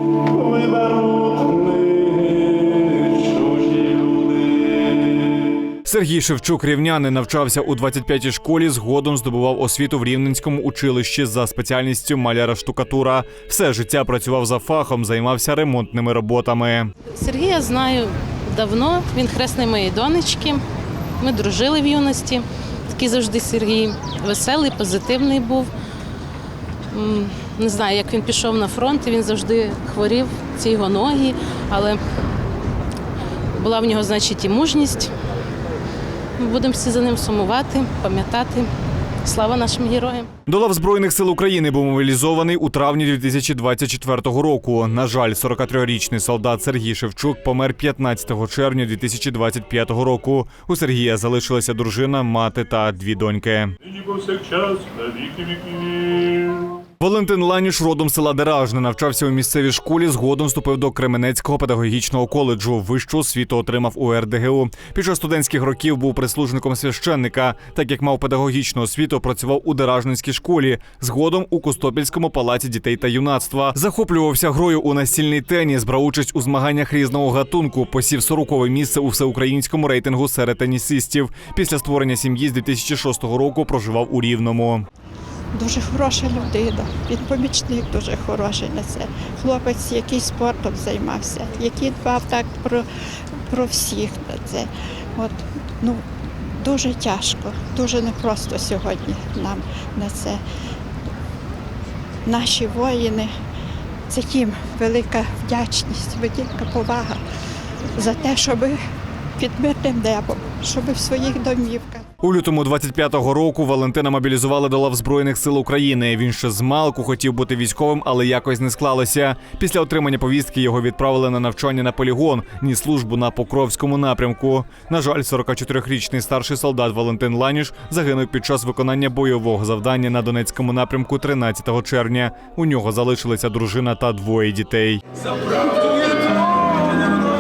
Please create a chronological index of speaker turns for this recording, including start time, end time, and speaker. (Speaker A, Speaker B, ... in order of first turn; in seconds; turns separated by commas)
Speaker A: 0.4-4.3, Speaker B: 5.8-16.9, Speaker C: 17.1-20.6, Speaker C: 21.2-25.7, Speaker C: 26.9-32.0, Speaker C: 33.5-35.1, Speaker C: 36.4-38.7, Speaker C: 39.2-40.3, Speaker B: 40.5-53.8, Speaker A: 53.9-56.7, Speaker B: 57.0-84.8, Speaker D: 85.5-92.8, Speaker D: 93.5-100.4, Speaker D: 102.2-103.3, Speaker D: 104.1-107.2, Speaker D: 108.0-108.8, Speaker D: 109.4-112.0, Speaker B: 112.2-135.0